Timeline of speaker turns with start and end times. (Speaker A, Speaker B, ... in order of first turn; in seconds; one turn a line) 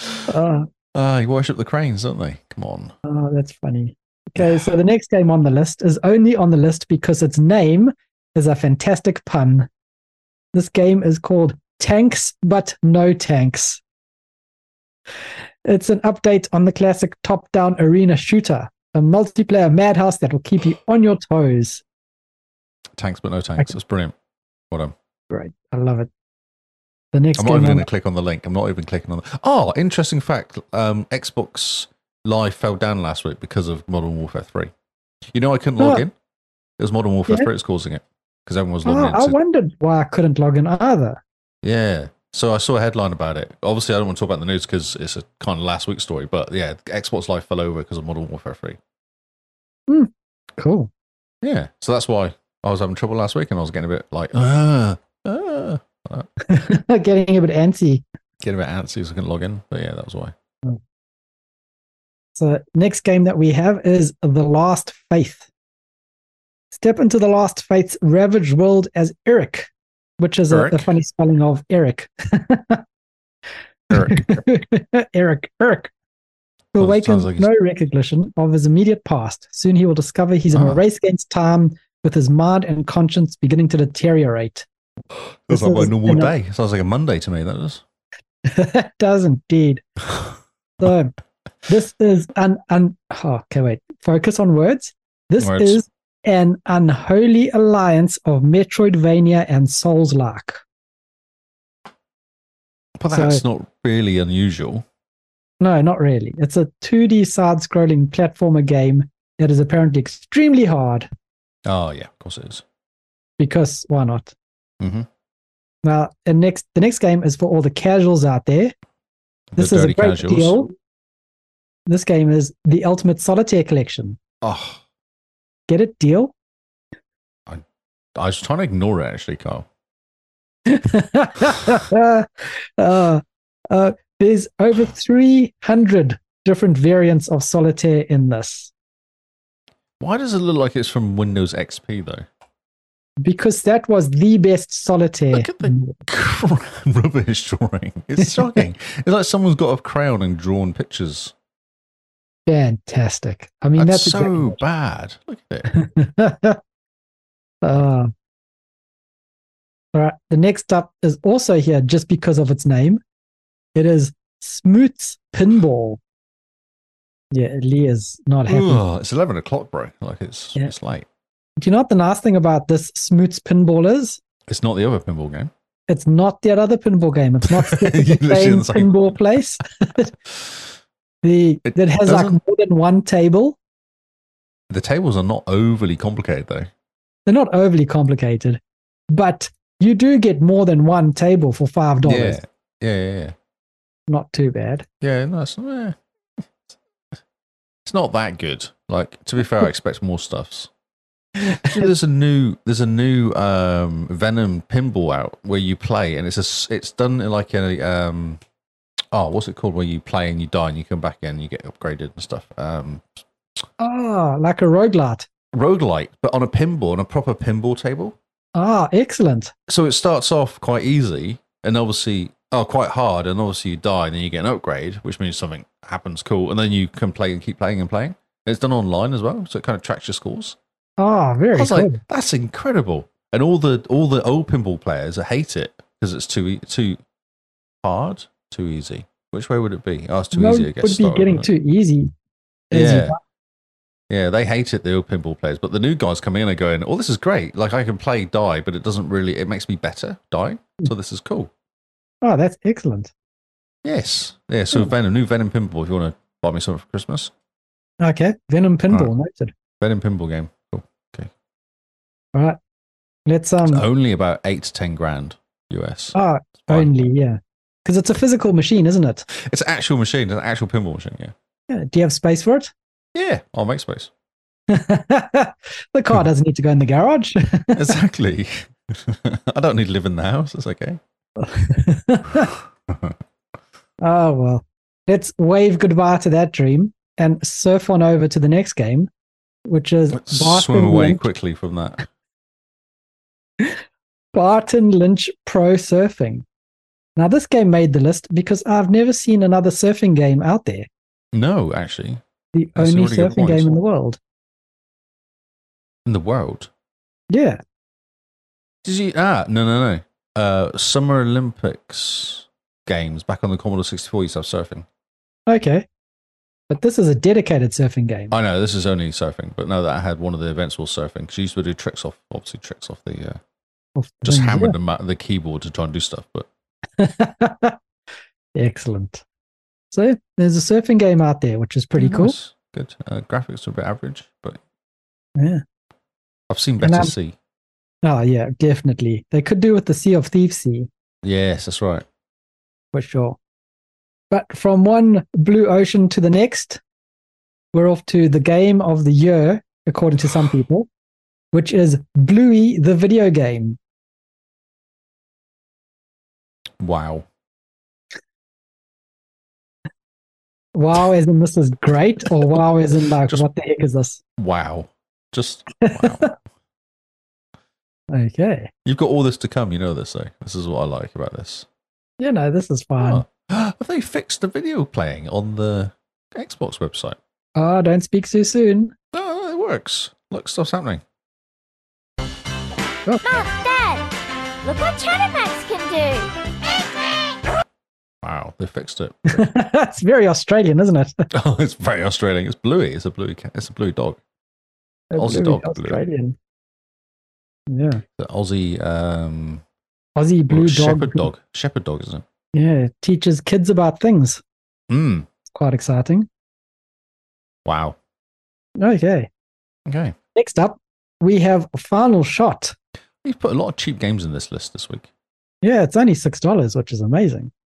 Speaker A: 0.3-0.7
Speaker B: 0.9-2.9
Speaker A: 3.0-9.7
Speaker A: 10.5-13.8
Speaker A: 15.7-21.8
Speaker B: 23.0-24.1
Speaker A: 25.3-26.1
Speaker A: 27.1-27.9
Speaker B: 27.4-34.7
Speaker B: 35.3-36.1
Speaker A: 35.8-36.0
Speaker B: 36.8-39.4
Speaker A: 38.9-41.2
Speaker B: 41.6-48.8
Speaker A: 49.9-50.9
Speaker B: 51.4-56.3
Speaker A: 56.4-58.0
Speaker B: 58.4-60.3
Speaker A: 62.4-65.5
Speaker A: 66.7-72.8
Speaker B: 70.5-70.9
Speaker A: 73.9-75.9
Speaker B: 73.9-74.2
Speaker A: 76.7-84.7
Speaker B: 76.8-77.5
Speaker B: 80.5-80.8
Speaker B: 85.5-87.8
Speaker A: 85.5-86.3
Speaker A: 88.5-89.8
Speaker A: 90.8-91.1
Speaker A: 91.7-100.6
Speaker B: 95.4-95.8
Speaker B: 103.0-104.8
Speaker A: 103.1-103.4
Speaker A: 105.6-111.1
Speaker B: 111.7-112.6
Speaker A: 113.4-114.3
Speaker B: 114.8-115.1
Speaker A: 115.8-118.7
Speaker B: 119.5-120.7
Speaker A: 119.6-120.7
Speaker A: 121.9-124.2
Speaker B: 124.4-124.8
Speaker A: 125.7-126.3
Speaker B: 128.2-129.7
Speaker A: 130.7-138.7
Speaker B: 140.0-142.3
Speaker A: 143.2-146.0
Speaker B: 145.3-151.3
Speaker A: 148.2-148.5
Speaker A: 152.5-154.6
Speaker B: 153.8-155.7
Speaker A: 155.7-156.6
Speaker A: 157.6-158.1
Speaker A: 159.9-163.0
Speaker A: 163.8-166.0
Speaker A: 167.3-168.8
Speaker B: 168.5-171.1
Speaker A: 171.6-174.2
Speaker B: 174.5-175.5
Speaker A: 175.9-180.1
Speaker B: 177.5-179.0
Speaker A: 181.2-183.6
Speaker B: 181.7-182.4
Speaker B: 184.7-186.7
Speaker A: 187.3-192.4
Speaker B: 192.0-193.3
Speaker A: 194.1-194.8
Speaker B: 195.0-196.4
Speaker B: 197.9-200.7
Speaker B: 201.5-208.4
Speaker B: 209.1-213.2
Speaker A: 213.8-215.3
Speaker B: 215.5-218.2
Speaker A: 218.6-219.5
Speaker B: 219.7-230.6
Speaker A: 231.0-232.0
Speaker B: 231.5-237.0
Speaker B: 237.8-241.5
Speaker A: 240.3-242.1
Speaker B: 242.7-243.2
Speaker A: 242.7-243.2
Speaker B: 244.1-251.5
Speaker A: 252.2-253.1
Speaker B: 253.8-257.3
Speaker A: 258.0-259.5
Speaker B: 259.8-261.3
Speaker A: 262.3-262.6
Speaker A: 263.3-263.8
Speaker B: 263.7-266.1
Speaker A: 266.1-269.3
Speaker B: 266.7-267.1
Speaker B: 269.3-271.3
Speaker A: 271.7-272.7
Speaker B: 273.1-274.1
Speaker A: 274.7-277.9
Speaker B: 277.7-281.0
Speaker A: 281.4-282.5
Speaker B: 282.5-283.1
Speaker A: 284.0-289.1
Speaker A: 289.7-291.2
Speaker B: 290.1-292.1
Speaker A: 294.3-296.4
Speaker A: 297.2-300.9
Speaker B: 301.3-302.2
Speaker A: 302.5-304.2
Speaker B: 302.8-303.8
Speaker B: 306.1-306.7
Speaker A: 307.3-307.6
Speaker B: 308.8-314.9
Speaker A: 315.5-315.9
Speaker A: 316.7-318.3
Speaker B: 318.3-323.4
Speaker A: 324.0-324.8
Speaker B: 324.2-326.5
Speaker A: 327.0-327.8
Speaker A: 328.6-329.2
Speaker A: 329.9-332.4
Speaker B: 332.0-334.6
Speaker A: 335.4-335.6
Speaker B: 336.5-337.4
Speaker A: 336.8-337.1
Speaker A: 338.0-340.9
Speaker B: 341.2-342.1
Speaker A: 342.9-343.4
Speaker A: 344.3-346.8
Speaker A: 347.7-350.9
Speaker A: 351.5-353.8
Speaker B: 356.8-357.3
Speaker A: 360.8-364.2
Speaker B: 362.2-362.6
Speaker B: 364.4-366.4
Speaker A: 365.8-366.3
Speaker A: 368.1-368.7
Speaker B: 368.9-371.7
Speaker A: 372.2-373.2
Speaker B: 373.0-377.2
Speaker A: 377.6-378.9
Speaker B: 379.1-381.0
Speaker C: 383.3-384.1
Speaker C: 384.6-386.3
Speaker B: 388.2-389.5
Speaker A: 389.3-391.3
Speaker B: 391.3-394.2
Speaker A: 395.1-396.4
Speaker B: 395.2-396.0
Speaker A: 397.7-398.0
Speaker B: 398.2-399.6
Speaker A: 400.2-401.3
Speaker B: 400.5-402.2
Speaker A: 402.5-404.4
Speaker B: 404.9-405.3
Speaker A: 405.6-406.3
Speaker B: 407.6-408.0
Speaker A: 408.8-409.3
Speaker B: 409.9-410.1
Speaker A: 410.4-412.8
Speaker B: 413.2-415.1
Speaker A: 415.6-417.5